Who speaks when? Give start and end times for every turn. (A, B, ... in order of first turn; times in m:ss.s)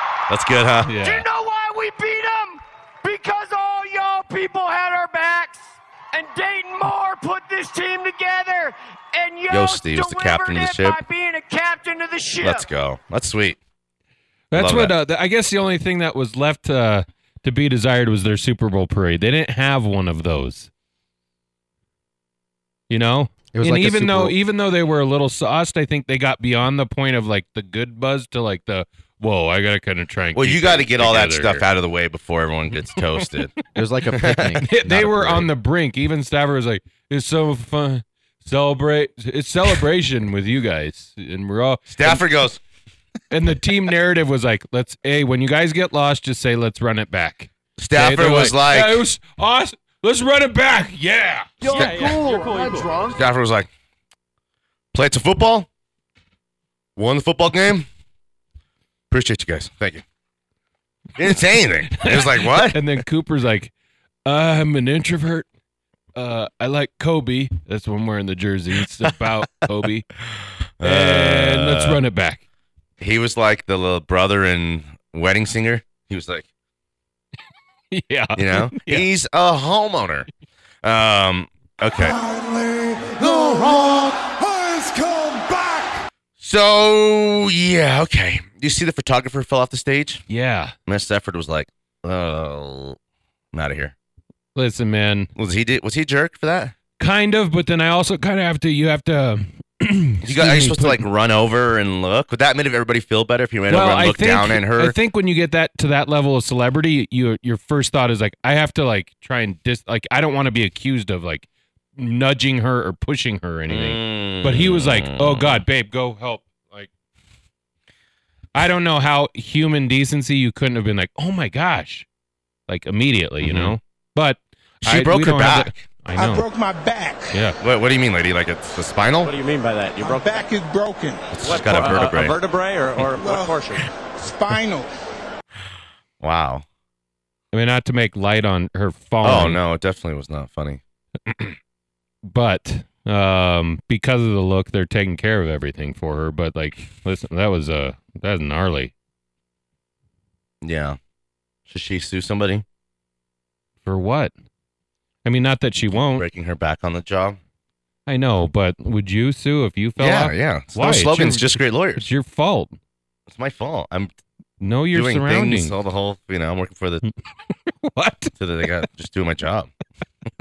0:00.3-0:00.9 A
0:00.8-0:01.2 B
0:01.0-0:12.7 C
0:09.5-0:11.0 A
0:12.4-0:13.6 A
0:14.5-0:20.7 B
0:14.5-0:14.9 A
0:22.9-0:31.6 B
0:23.5-0:24.4 D
0:30.3-0:33.5 A
0:33.0-0:33.2 B
0:33.7-0:35.5 D
0:34.2-0:34.6 A
0:34.6-0:42.2 B
0:41.9-0:42.6 A
0:43.3-0:52.2 B
0:47.8-0:49.0 A
0:51.6-0:53.2 E
0:51.7-0:52.2 A
0:52.1-0:53.0 C
0:53.1-0:53.7 A
0:54.9-0:55.7 A
0:57.0-0:57.9 A
0:59.1-1:00.0 A
1:01.2-1:02.8 A
1:02.0-1:03.7 B
1:04.2-1:05.4 B
1:06.1-1:10.1 B
1:10.8-1:12.0 A
1:10.8-1:12.4 B
1:13.0-1:16.5 A
1:17.9-1:19.0 B
1:18.3-1:20.3 A
1:20.8-1:22.2 A
1:22.0-1:26.0 E
1:23.2-1:24.1 A
1:26.4-1:30.2 A
1:30.3-1:30.7 B
1:30.9-1:33.0 A
1:33.5-1:33.9 A
1:34.5-1:35.3 B
1:35.4-1:36.7 A
1:37.0-1:41.0 B
1:40.2-1:45.0 A
1:43.7-1:56.9 B
1:53.7-1:55.6 A
1:58.5-2:02.0 B
2:02.7-2:06.4 B
2:03.4-2:03.8 A
2:04.8-2:05.8 A
2:06.1-2:07.4 E
2:07.6-2:09.3 A
2:09.2-2:10.4 F
2:10.0-2:11.4 E
2:11.4-2:12.4 A
2:11.4-2:13.9 F
2:13.1-2:14.9 E
2:16.2-2:16.6 A
2:17.5-2:19.6 B
2:19.2-2:20.8 A
2:22.3-2:28.9 B
2:30.6-2:31.0 A
2:31.7-2:32.6 A
2:33.8-2:34.3 B
2:35.2-2:36.2 B
2:36.2-2:37.4 A
2:38.1-2:42.8 B
2:40.0-2:42.1 A
2:43.3-2:44.1 A
2:44.6-2:45.7 B
2:44.9-2:47.0 A
2:47.8-2:48.3 B
2:48.4-2:49.7 A